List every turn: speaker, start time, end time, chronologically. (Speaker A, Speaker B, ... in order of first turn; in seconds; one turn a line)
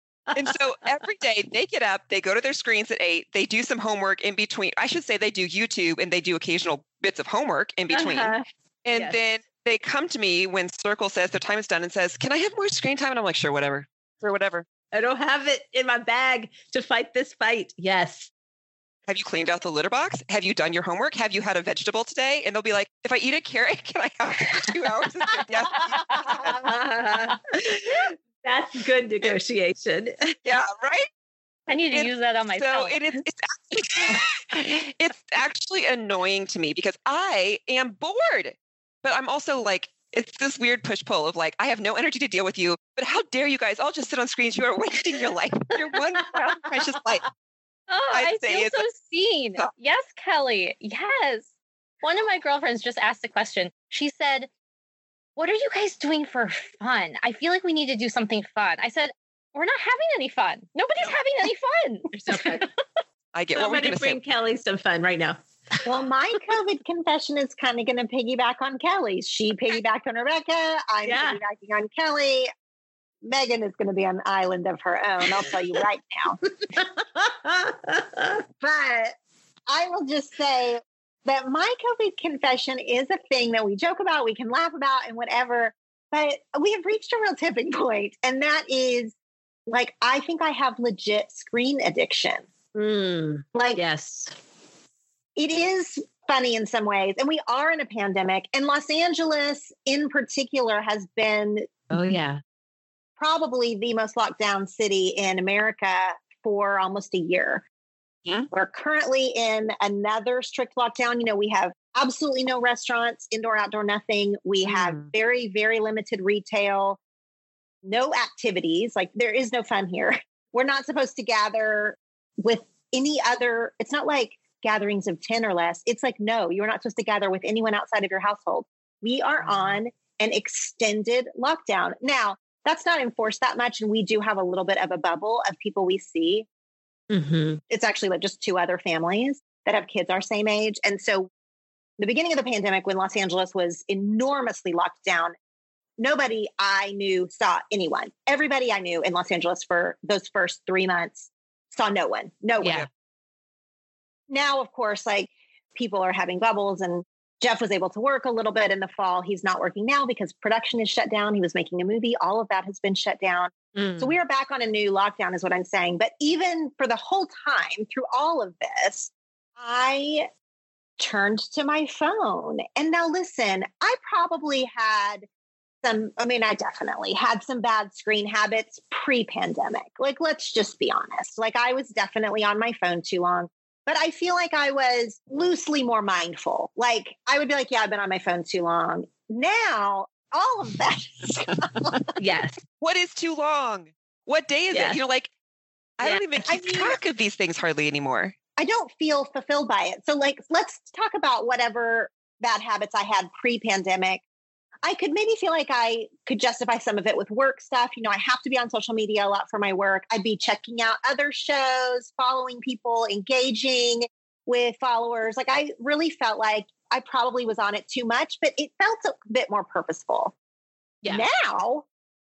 Speaker A: 0.3-1.1
Speaker B: 0.3-14.7
Speaker A: 7.9-9.2
Speaker A: 14.9-18.3
Speaker B: 19.1-26.6
Speaker A: 25.7-30.4
Speaker B: 30.4-31.1
Speaker C: 31.7-33.2
Speaker B: 31.9-47.2
Speaker C: 47.9-51.5
Speaker B: 48.1-48.8
Speaker C: 52.0-54.5
Speaker C: 55.4-62.6
Speaker A: 62.1-62.7
Speaker B: 63.3-64.2
Speaker A: 63.5-65.9
Speaker D: 65.8-72.5
Speaker A: 71.0-71.4
Speaker D: 73.2-76.4
Speaker A: 76.6-78.4
Speaker D: 78.6-79.2
Speaker D: 79.7-89.2
Speaker D: 89.7-92.5
Speaker A: 92.8-94.3
Speaker D: 93.5-93.8
Speaker D: 95.4-101.7
Speaker A: 101.9-102.4
Speaker D: 103.2-107.6
Speaker D: 108.5-117.0
Speaker A: 114.7-115.1
Speaker D: 117.8-136.5
Speaker A: 129.4-129.8
Speaker A: 137.1-137.6
Speaker D: 137.7-141.3
Speaker D: 142.0-145.3
Speaker D: 146.0-152.8
Speaker A: 152.6-152.9
Speaker B: 152.6-152.9
Speaker D: 154.3-170.3
Speaker A: 163.7-164.2
Speaker D: 171.0-175.3
Speaker D: 175.8-192.1
Speaker A: 192.2-192.6
Speaker B: 192.8-195.3
Speaker A: 194.7-195.0
Speaker B: 196.0-198.3
Speaker A: 196.0-197.0
Speaker D: 198.6-204.2
Speaker D: 204.8-220.3
Speaker D: 221.1-221.9